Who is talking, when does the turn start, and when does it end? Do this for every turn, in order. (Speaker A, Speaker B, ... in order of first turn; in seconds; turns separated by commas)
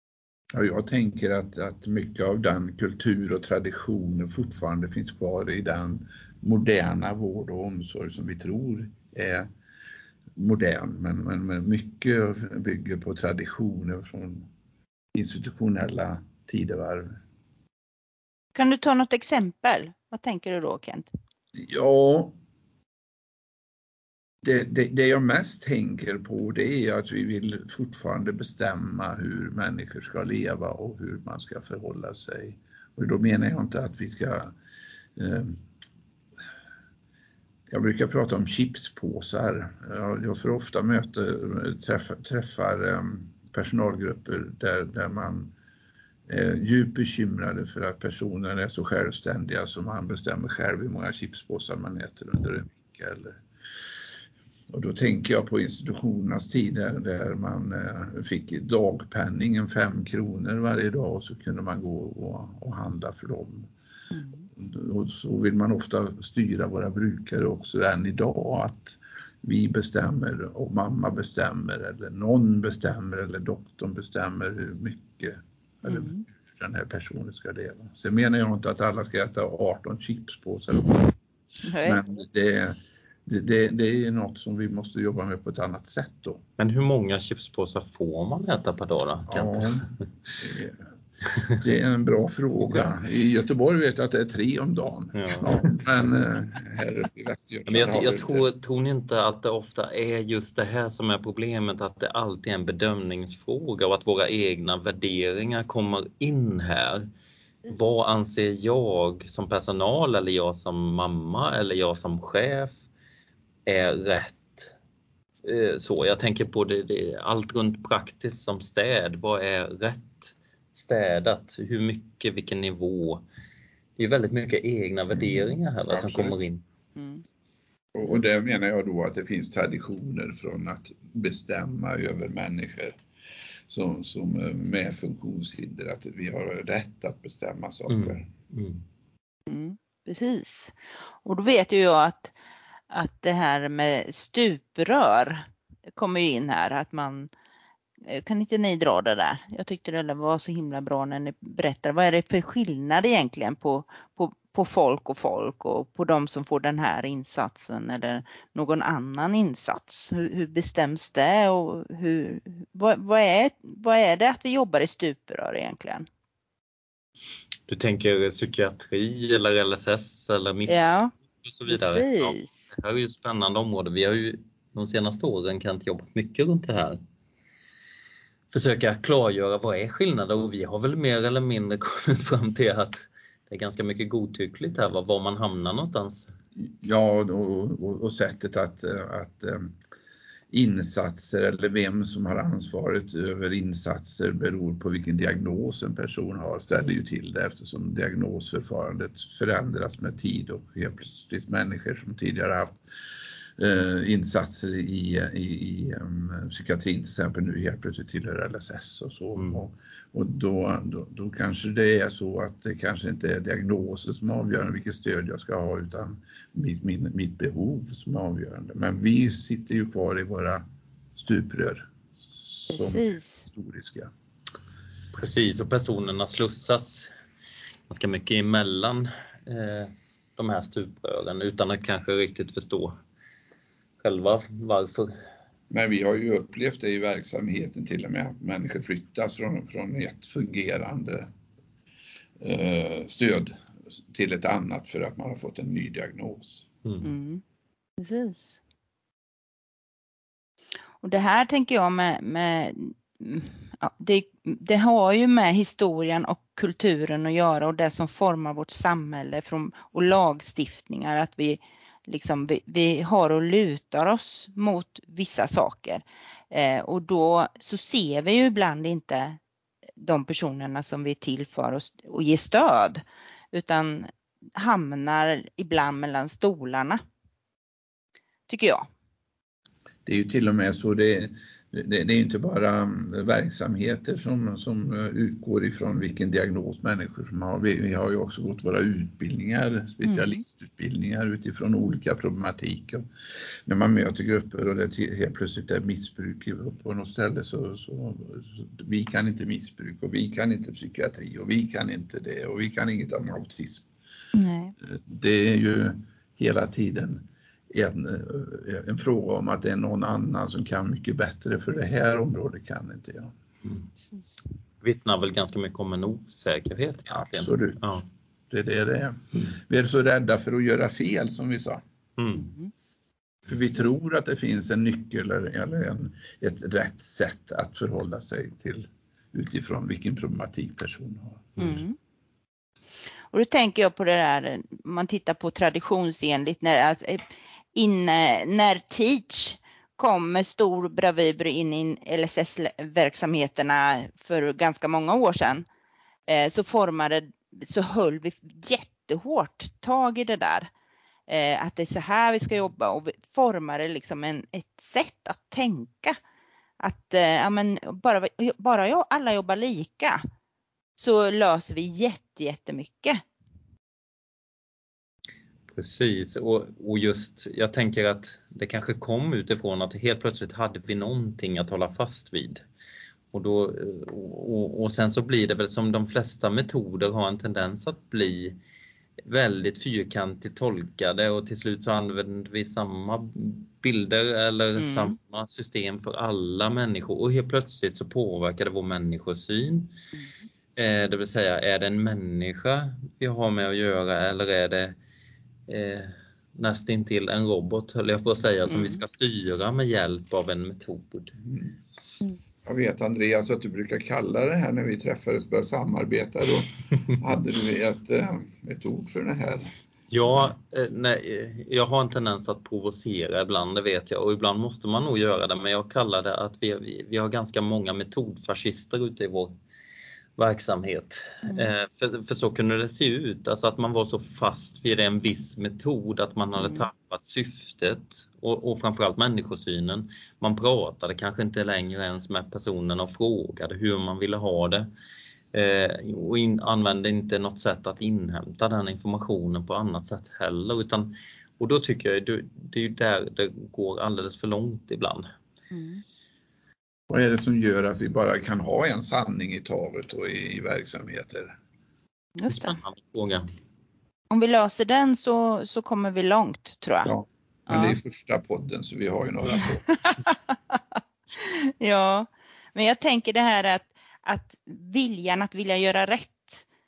Speaker A: 0.5-9.5, Speaker A: 10.4-14.5, Speaker A: 15.1-17.2, Speaker B: 18.6-21.1, Speaker A: 21.6-22.3, Speaker A: 24.4-34.5, Speaker A: 35.2-35.6, Speaker A: 37.7-45.5, Speaker A: 46.3-53.4, Speaker A: 54.7-63.7, Speaker B: 64.1-64.5, Speaker A: 64.6-81.2, Speaker B: 75.9-76.2, Speaker B: 81.6-82.0, Speaker A: 81.8-86.4, Speaker C: 86.6-89.9, Speaker A: 89.3-90.8, Speaker A: 91.6-98.5, Speaker C: 95.1-95.5, Speaker C: 97.7-107.1, Speaker C: 107.7-112.8, Speaker C: 113.7-114.7, Speaker C: 115.5-123.2, Speaker C: 124.0-126.6, Speaker A: 125.9-126.4, Speaker B: 127.0-127.2, Speaker A: 128.0-132.9, Speaker A: 133.7-138.3, Speaker C: 137.9-138.8, Speaker B: 139.5-142.3, Speaker B: 142.9-147.3, Speaker B: 148.0-166.1, Speaker C: 167.7-177.0, Speaker B: 170.7-171.1, Speaker B: 171.7-172.7, Speaker C: 178.5-186.3, Speaker A: 186.6-189.7, Speaker A: 190.5-202.8, Speaker A: 203.6-220.6, Speaker A: 221.2-224.1, Speaker B: 222.7-223.4, Speaker C: 225.1-227.1, Speaker C: 227.9-233.0, Speaker C: 234.0-235.1, Speaker A: 235.7-241.3, Speaker A: 242.4-246.7, Speaker B: 247.0-247.4, Speaker B: 248.0-248.6, Speaker B: 251.0-269.4, Speaker B: 270.0-277.0, Speaker B: 278.5-278.9, Speaker A: 280.1-293.1, Speaker B: 290.0-290.4, Speaker A: 293.7-303.9, Speaker B: 304.3-304.7, Speaker A: 304.8-313.3, Speaker C: 314.8-318.0, Speaker A: 317.1-321.8, Speaker C: 322.2-322.5, Speaker B: 322.4-322.7, Speaker A: 323.5-331.8, Speaker B: 331.6-332.0, Speaker B: 333.3-337.2, Speaker B: 337.8-345.7, Speaker B: 346.3-350.7, Speaker B: 351.3-356.2, Speaker B: 356.8-360.2, Speaker B: 361.0-363.2, Speaker C: 365.7-372.6, Speaker C: 373.3-378.6, Speaker C: 379.2-389.9, Speaker B: 384.8-385.2, Speaker C: 390.8-395.0, Speaker C: 395.7-401.4, Speaker B: 398.7-399.0, Speaker A: 401.4-401.8, Speaker A: 402.6-409.7, Speaker C: 410.1-419.5, Speaker C: 420.4-434.9, Speaker B: 426.6-426.9, Speaker C: 435.5-445.3, Speaker B: 445.7-446.0, Speaker A: 447.1-451.6, Speaker B: 452.4-452.8, Speaker C: 452.5-453.5, Speaker B: 454.3-457.1, Speaker A: 457.1-460.0, Speaker B: 457.7-458.0, Speaker B: 459.6-466.6